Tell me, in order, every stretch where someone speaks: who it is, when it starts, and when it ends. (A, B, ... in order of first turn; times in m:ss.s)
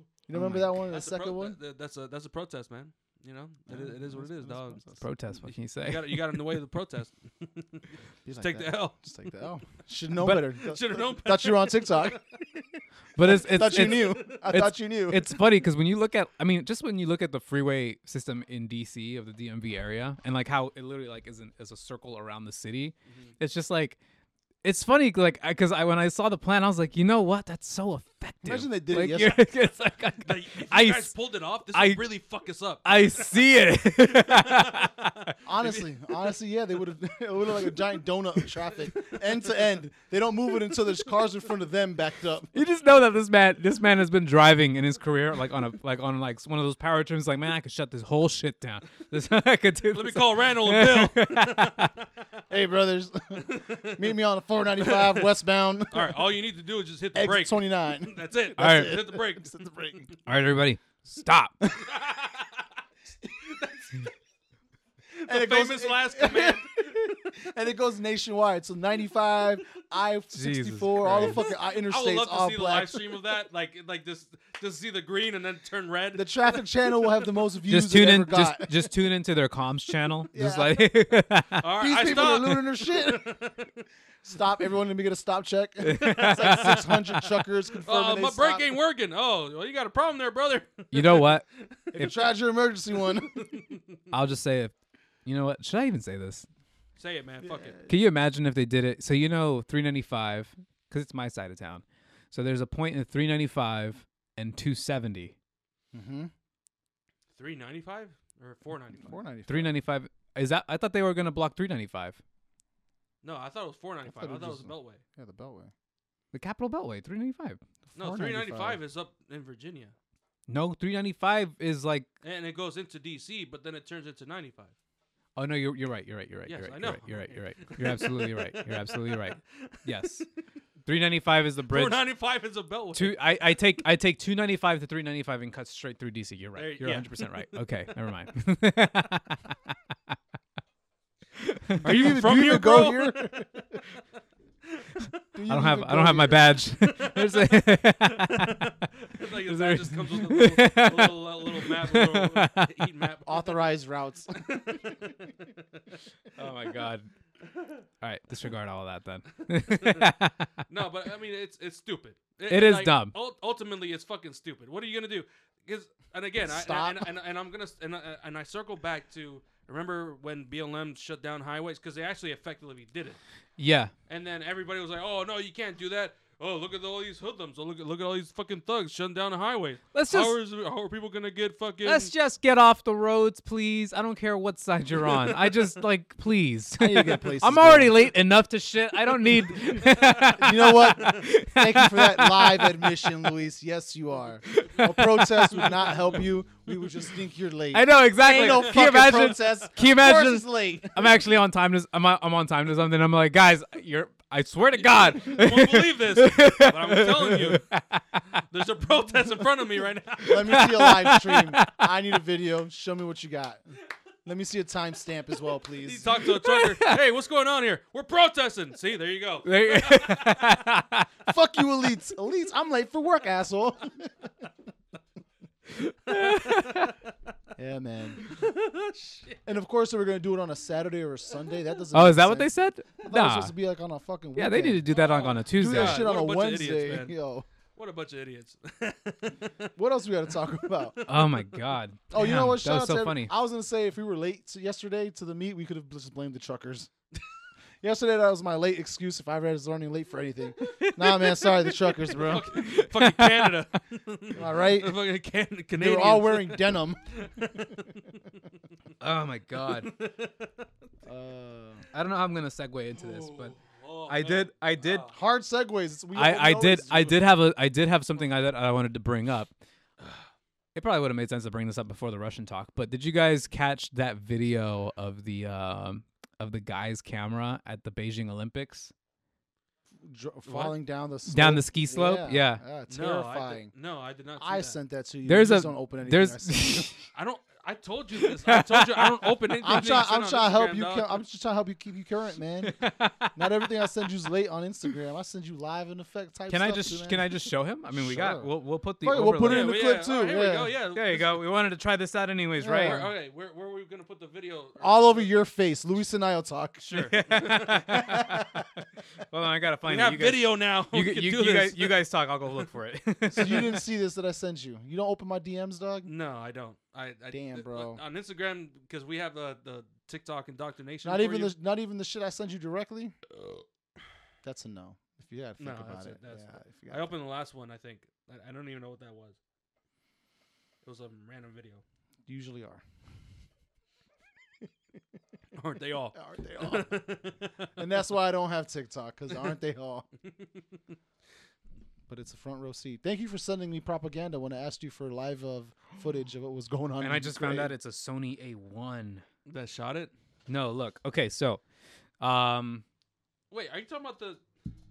0:00.3-0:01.6 A
0:00.3-0:00.7 B
0:00.9-0:04.8 C
0:03.7-0:05.0 A
0:05.0-0:06.5 B
0:05.8-0:09.0 C
0:08.2-0:15.4 A
0:10.2-0:10.5 B
0:10.5-0:12.4 C
0:13.2-0:24.0 B
0:13.5-0:14.5 C
0:24.6-0:31.1 B
0:28.4-0:29.4 A
0:30.2-0:32.8 C
0:31.7-0:32.0 B
0:32.8-0:35.3 B
0:34.4-0:34.9 C
0:35.4-0:42.5 A
0:35.6-0:35.9 C
0:42.5-0:51.9 B
0:49.9-0:51.9 C
0:52.5-0:56.4 A
0:53.4-0:54.1 C
0:54.8-0:55.3 C
0:55.9-0:59.5 C
0:57.1-1:00.1 A
0:58.6-0:59.0 B
1:00.3-1:01.7 B
1:01.7-1:02.7 C
1:03.3-1:04.1 C
1:05.2-1:07.3 C
1:05.3-1:13.0 A
1:10.3-1:11.4 B
1:11.3-1:17.0 C
1:16.2-1:18.9 A
1:17.7-1:21.6 B
1:20.3-1:20.8 A
1:21.6-1:23.7 C
1:21.8-1:23.4 A
1:24.2-1:28.7 A
1:25.8-1:26.8 B
1:26.0-1:27.0 C
1:27.8-1:32.1 C
1:30.9-1:31.4 B
1:32.0-1:33.4 A
1:33.1-1:34.0 C
1:34.1-1:34.7 B
1:35.2-1:36.5 B
1:37.0-1:37.8 C
1:37.5-1:37.8 A
1:37.9-1:45.3 B
1:45.9-1:46.3 A
1:47.4-1:49.2 C
1:49.0-1:49.8 A
1:49.5-1:52.2 B
1:53.2-1:55.0 C
1:54.1-1:55.7 A
1:56.3-1:57.6 B
1:57.9-1:58.8 A
1:58.0-1:59.9 C
2:00.5-2:02.1 B
2:02.2-2:04.7 C
2:05.4-2:10.3 B
2:06.5-2:10.0 C
2:10.8-2:12.0 B
2:11.7-2:13.2 C
2:13.0-2:19.6 B
2:16.6-2:17.3 C
2:21.4-2:22.4 B
2:21.8-2:23.8 A
2:21.8-2:23.6 C
2:24.7-2:25.2 C
2:25.3-2:26.6 A
2:25.5-2:32.7 B
2:26.8-2:33.7 C
2:33.3-2:35.0 A
2:34.3-2:36.0 C
2:36.4-2:37.1 B
2:38.0-2:40.5 B
2:39.6-2:40.1 C
2:40.7-2:53.2 C
2:42.5-2:43.1 B
2:46.4-2:47.1 A
2:53.6-2:53.9 B
2:54.1-3:02.1 C
2:59.9-3:00.4 B
3:01.8-3:13.1 B
3:06.8-3:08.1 A
3:09.8-3:10.2 C
3:10.4-3:21.1 A
3:14.5-3:15.9 B
3:17.7-3:28.0 B
3:24.8-3:27.6 C
3:28.5-3:30.6 C
3:30.2-3:31.9 B
3:30.3-3:33.6 A
3:34.2-3:36.1 A
3:35.8-3:40.4 C
3:36.4-3:37.0 B
3:39.5-3:41.1 B
3:41.3-3:44.3 A
3:45.8-3:47.0 B
3:46.2-3:46.9 C
3:47.6-3:48.3 A
3:48.2-3:49.4 C
3:49.5-3:52.5 A
3:51.9-3:53.5 B
3:53.0-3:54.8 A
3:54.4-3:56.1 B
3:54.9-3:57.2 C
3:55.5-3:57.5 A
3:57.8-3:59.7 C
3:59.8-4:01.1 A
4:01.1-4:03.3 B
4:02.1-4:06.9 A
4:07.8-4:12.5 A
4:10.8-4:11.8 B
4:12.1-4:18.4 C
4:12.5-4:13.5 B
4:14.4-4:15.0 A
4:15.8-4:17.0 A
4:19.0-4:19.9 B
4:19.6-4:20.6 C
4:21.1-4:21.8 A
4:21.9-4:23.6 B
4:23.0-4:25.2 C
4:24.1-4:25.1 B
4:25.1-4:27.3 A
4:26.2-4:29.5 B
4:30.8-4:38.9 B
4:40.0-4:43.7 A
4:41.3-4:42.6 B
4:42.9-4:44.8 C
4:44.4-4:46.9 A
4:45.3-4:47.1 B
4:47.1-4:51.2 C
4:48.2-4:49.8 B
4:49.6-4:58.5 A
4:52.6-4:53.9 B
4:56.5-4:59.8 B
4:59.0-5:00.7 A
4:59.5-5:01.4 C
5:01.0-5:03.1 B
5:02.6-5:03.1 A
5:02.8-5:05.4 C
5:04.8-5:08.8 A
5:06.8-5:07.8 C
5:07.1-5:08.6 B
5:09.3-5:13.8 B
5:09.9-5:12.0 C
5:13.3-5:16.1 A
5:16.1-5:21.6 C
5:17.3-5:18.0 A
5:21.0-5:23.2 A
5:23.3-5:23.6 C
5:24.4-5:27.1 A
5:25.6-5:29.4 C
5:30.8-5:31.8 C
5:32.3-5:32.8 A
5:35.6-5:37.8 C
5:36.2-5:37.1 A
5:37.8-5:40.1 A
5:42.1-5:47.7 A
5:47.0-5:49.2 B
5:49.5-5:50.1 C
5:50.5-5:51.6 B
5:52.2-5:52.8 B
5:53.5-5:54.4 C